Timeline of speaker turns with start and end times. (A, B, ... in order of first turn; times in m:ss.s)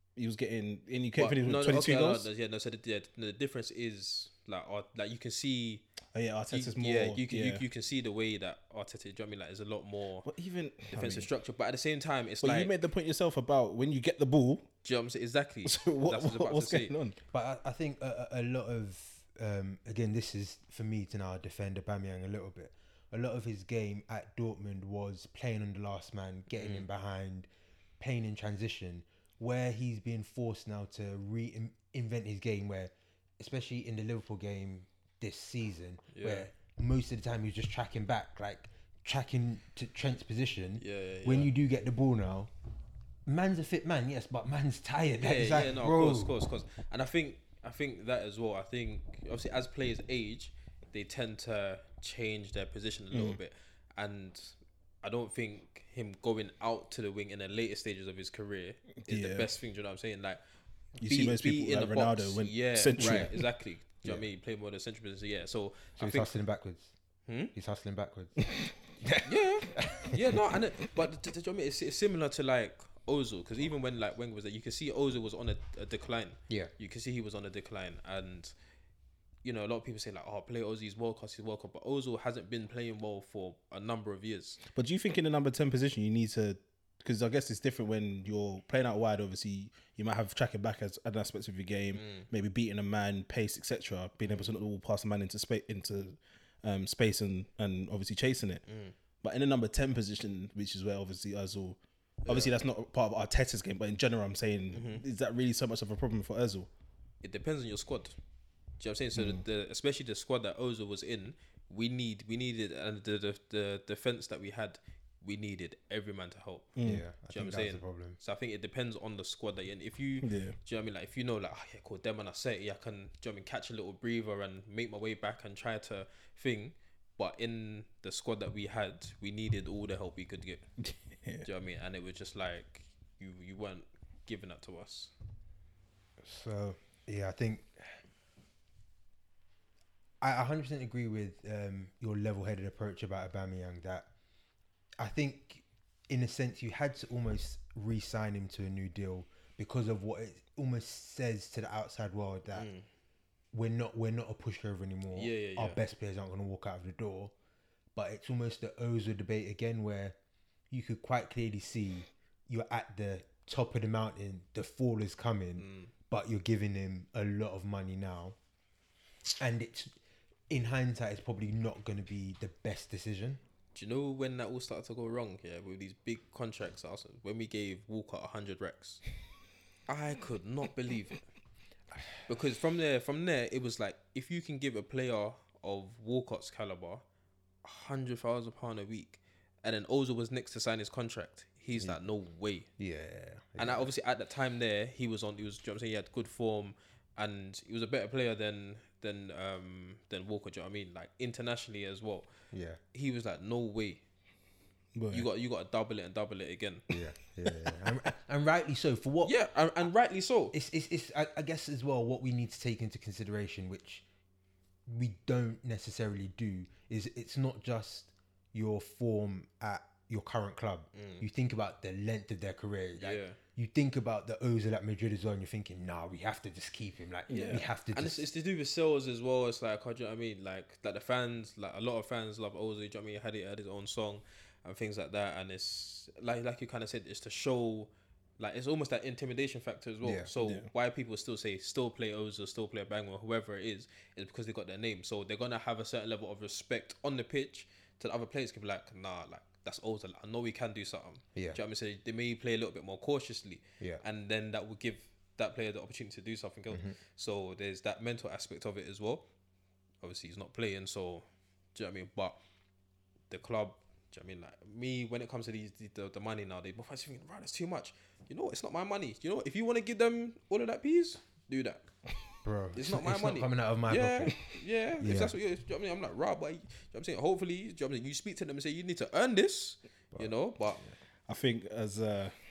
0:00.2-0:02.2 A
0:01.2-0:05.9 B
0:06.1-0:07.6 A
0:06.5-0:10.3 B
0:10.2-0:11.3 A
0:10.9-0:12.7 B
0:12.4-0:14.7 A
0:14.8-0:16.9 B
0:15.6-0:17.2 A
0:17.3-0:27.5 C
0:26.5-0:26.8 B
0:28.0-0:42.5 C
0:36.1-0:36.5 B
0:40.8-0:41.5 B
0:43.2-0:46.4 C
0:45.2-1:00.4 B
0:53.1-0:53.4 A
0:59.0-0:59.5 A
1:01.0-1:03.5 A
1:01.0-1:06.3 B
1:03.0-1:03.3 C
1:06.0-1:06.9 C
1:07.2-1:07.5 B
1:07.5-1:10.4 C
1:09.2-1:18.5 B
1:19.4-1:24.6 B
1:24.7-1:38.6 A
1:32.0-1:32.3 B
1:34.2-1:34.5 B
1:38.7-1:38.9 B
1:39.2-1:46.7 A
1:42.2-1:42.5 B
1:44.7-1:45.0 B
1:47.2-1:48.2 B
1:48.8-1:56.7 B
1:56.8-1:57.0 A
1:56.8-1:58.2 C
1:57.3-2:10.6 B
2:00.2-2:00.6 A
2:10.8-2:11.4 A
2:11.4-2:15.1 B
2:16.2-2:18.0 C
2:20.2-2:24.1 C
2:25.0-2:32.7 C
2:32.5-2:32.8 B
2:33.5-2:37.3 C
2:35.1-2:35.8 B
2:37.9-2:40.2 C
2:40.7-2:48.4 C
2:45.6-2:45.9 B
2:49.4-2:50.0 C
2:50.5-2:53.4 C
2:53.7-2:59.0 B
2:59.9-3:01.2 B
3:02.2-3:07.0 B
3:07.6-3:12.7 B
3:12.8-3:13.9 C
3:13.6-3:22.3 B
3:22.5-3:22.8 C
3:22.9-3:24.0 B
3:24.9-3:25.3 A
3:25.1-3:26.8 B
3:26.9-3:29.3 C
3:29.2-3:30.5 B
3:30.5-3:34.0 C
3:34.9-3:48.2 C
3:40.9-3:41.2 B
3:43.0-3:43.4 B
3:47.3-4:19.3 B
4:00.0-4:00.3 C
4:00.4-4:00.7 A
4:16.7-4:17.0 C
4:20.0-4:22.4 B
4:23.3-4:31.8 B
4:32.4-4:34.4 C
4:32.7-4:40.8 B
4:35.0-4:35.3 C
4:41.3-4:42.3 A